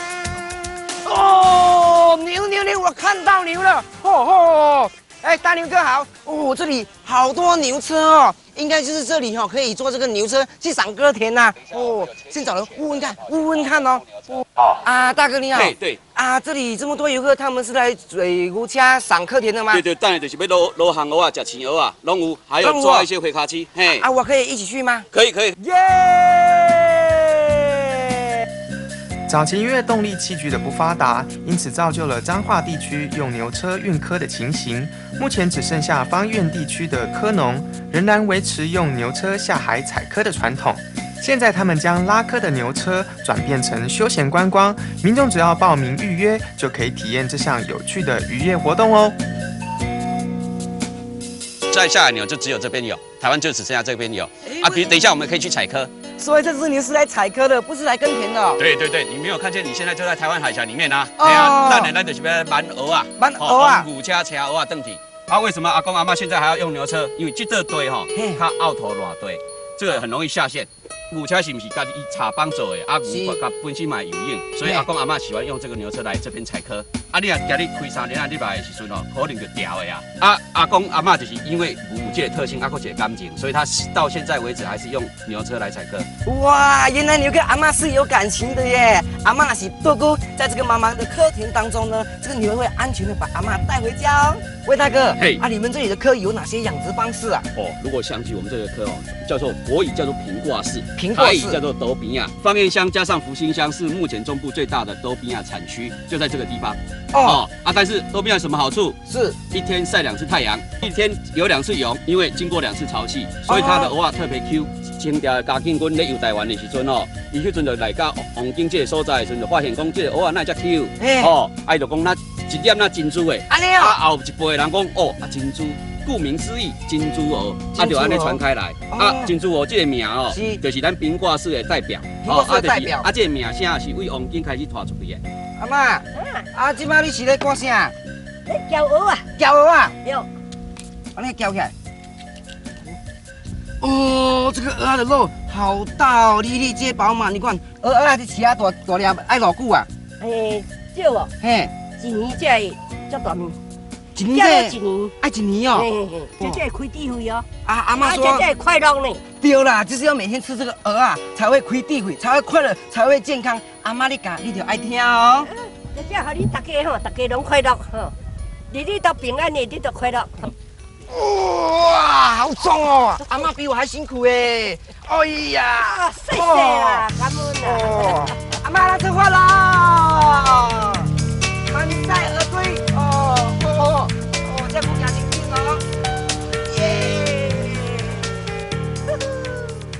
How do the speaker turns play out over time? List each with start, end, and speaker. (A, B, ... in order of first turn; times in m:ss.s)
0:01.0-0:19.8 A
0:15.5-0:16.0 B
0:19.7-0:24.1 B
0:22.6-0:23.1 A
0:23.9-0:25.0 A
0:25.1-0:25.5 B
0:25.6-0:28.1 A
0:29.3-0:49.2 C
0:51.7-0:55.9 B
0:54.4-0:55.0 A
0:56.2-0:58.6 A
0:58.6-1:26.1 B
1:01.2-1:01.9 A
1:03.2-1:03.9 A
1:08.1-1:08.4 A
1:13.1-1:13.4 A
1:26.2-1:37.4 A
1:35.1-1:35.4 B
1:37.5-1:49.0 B
1:41.0-1:41.6 A
1:47.1-1:47.4 A
1:49.1-1:49.4 A
1:49.5-2:15.2 B
1:53.4-1:53.9 A
2:01.0-2:01.3 A
2:03.5-2:04.0 A
2:07.7-2:09.3 A
2:10.3-2:10.6 A
2:12.2-2:13.1 A
2:15.6-2:17.9 A
2:16.1-2:16.5 D
2:18.4-2:19.3 D
2:19.4-2:19.9 A
2:20.0-2:20.3 D
2:21.1-2:21.7 A
2:23.8-2:29.9 A
2:30.2-2:31.3 D
2:31.4-2:31.7 A
2:32.0-2:33.6 D
2:34.2-2:35.9 A
2:34.3-2:35.1 D
2:35.7-2:37.4 D
2:37.6-2:38.4 A
2:38.0-2:39.2 D
2:39.4-2:45.5 A
2:45.9-2:48.1 D
2:48.7-2:50.5 D
2:51.1-2:57.0 A
2:55.9-2:58.4 D
2:57.6-3:01.1 A
3:01.7-3:05.8 A
3:06.7-3:08.1 A